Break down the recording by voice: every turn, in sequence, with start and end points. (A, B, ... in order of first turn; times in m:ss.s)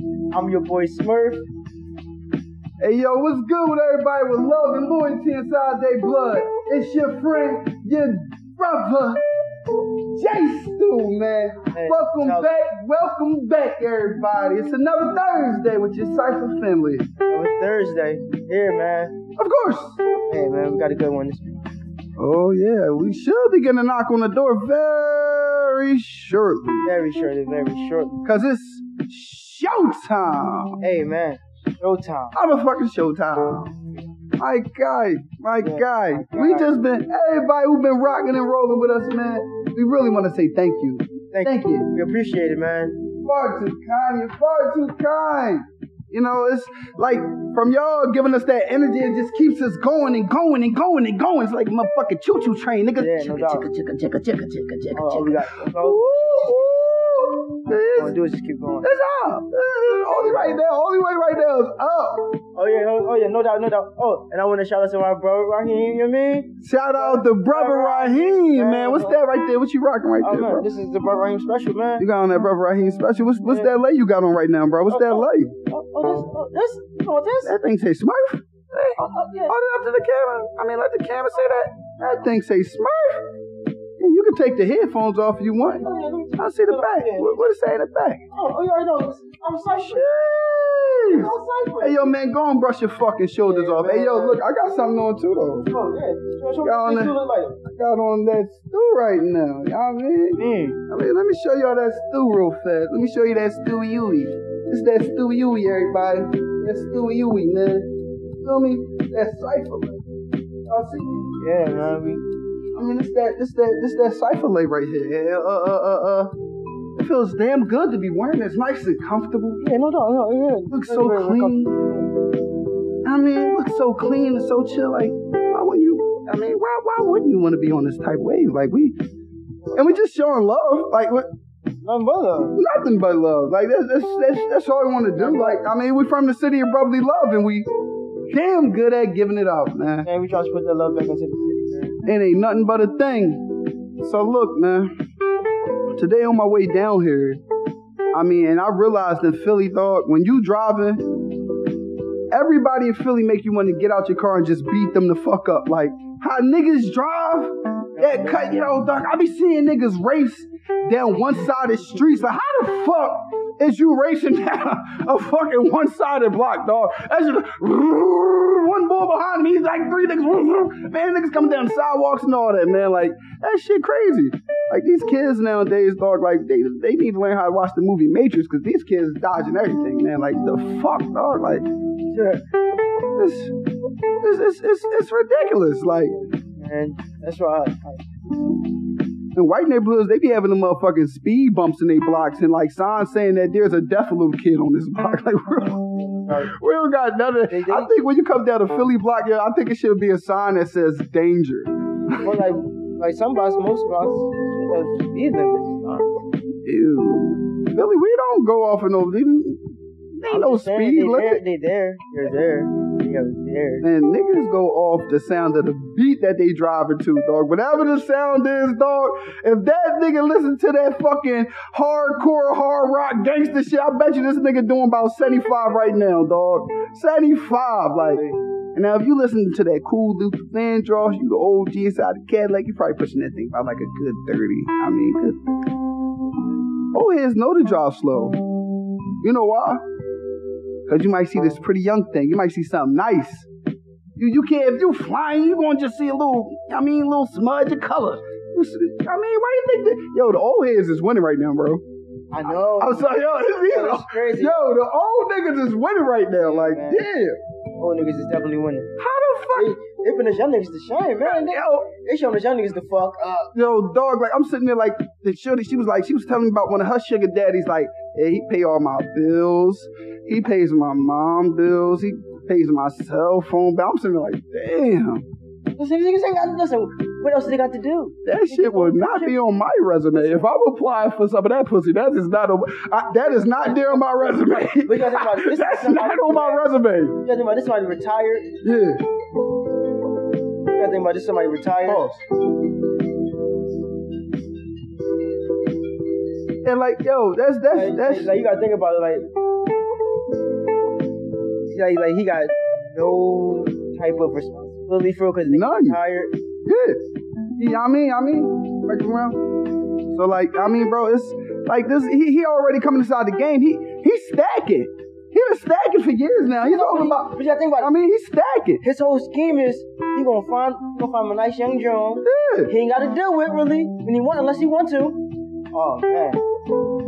0:00.3-0:01.4 A
0:02.8-0:09.2 B
0:10.1-0:17.1 B
0:11.7-0:12.5 A
0:17.2-0:19.2 A
0:19.4-0:20.0 B
0:20.3-0:21.7 A
0:22.2-0:26.9 B
0:26.8-0:28.2 A
0:28.2-0:30.8 B
0:30.8-0:32.4 A
0:32.3-0:33.8 B
0:34.4-0:41.9 B
0:35.6-0:36.8 A
0:41.3-0:43.0 A
0:43.2-0:58.2 B
0:53.0-0:53.7 A
0:54.9-0:56.7 A
0:57.9-0:58.9 A
0:58.8-1:02.4 B
1:00.2-1:00.5 A
1:02.6-1:09.2 A
1:06.6-1:10.7 B
1:10.2-1:12.1 A
1:12.0-1:15.5 B
1:13.5-1:13.7 A
1:14.9-1:17.6 A
1:17.4-1:23.3 B
1:19.0-1:19.6 A
1:24.0-1:28.2 B
1:25.8-1:27.4 A
1:28.3-1:30.2 A
1:29.8-1:31.3 B
1:31.0-1:32.2 A
1:31.8-1:35.7 B
1:33.4-1:34.4 A
1:35.7-1:37.6 A
1:36.6-1:50.0 B
1:40.4-1:40.8 A
1:50.7-1:51.4 B
1:51.4-1:52.3 A
1:52.7-1:56.4 B
1:57.0-1:59.6 B
1:59.6-2:02.1 A
2:00.7-2:01.7 B
2:03.0-2:09.0 B
2:09.7-2:11.3 B
2:11.8-2:12.6 A
2:12.6-2:17.7 B
2:15.2-2:15.6 A
2:18.3-2:20.1 B
2:20.0-2:22.0 A
2:22.0-2:25.0 B
2:25.9-2:27.4 B
2:28.1-2:31.2 B
2:32.3-3:01.7 B
2:37.9-2:38.5 A
3:02.1-3:02.5 A
3:03.2-3:03.6 B
3:04.2-3:06.2 B
3:06.4-3:08.0 A
3:09.4-3:22.4 B
3:16.1-3:16.5 A
3:17.5-3:17.9 A
3:22.2-3:26.2 A
3:26.6-3:31.4 B
3:30.2-3:33.9 A
3:33.8-3:55.4 B
3:48.1-3:48.4 A
3:56.9-3:58.4 B
3:59.2-3:59.8 B
4:00.9-4:03.5 B
4:04.2-4:11.8 B
4:12.3-4:14.6 A
4:12.4-4:17.4 B
4:16.4-4:17.1 A
4:17.8-4:18.9 A
4:19.0-4:19.8 B
4:19.5-4:23.5 A
4:21.3-4:21.9 B
4:23.5-4:35.3 B
4:35.8-4:39.4 A
4:38.2-4:47.2 B
4:40.2-4:40.4 A
4:44.8-4:48.6 A
4:48.6-4:49.1 B
4:50.7-4:52.1 A
4:51.8-4:52.2 B
4:56.6-4:58.4 B
4:57.7-4:59.3 A
5:01.7-5:06.4 A
5:05.5-5:06.0 B
5:06.6-5:07.0 B
5:07.6-5:09.4 B
5:10.1-5:18.8 B
5:16.6-5:17.9 A
5:18.8-5:26.4 A
5:22.2-5:22.7 B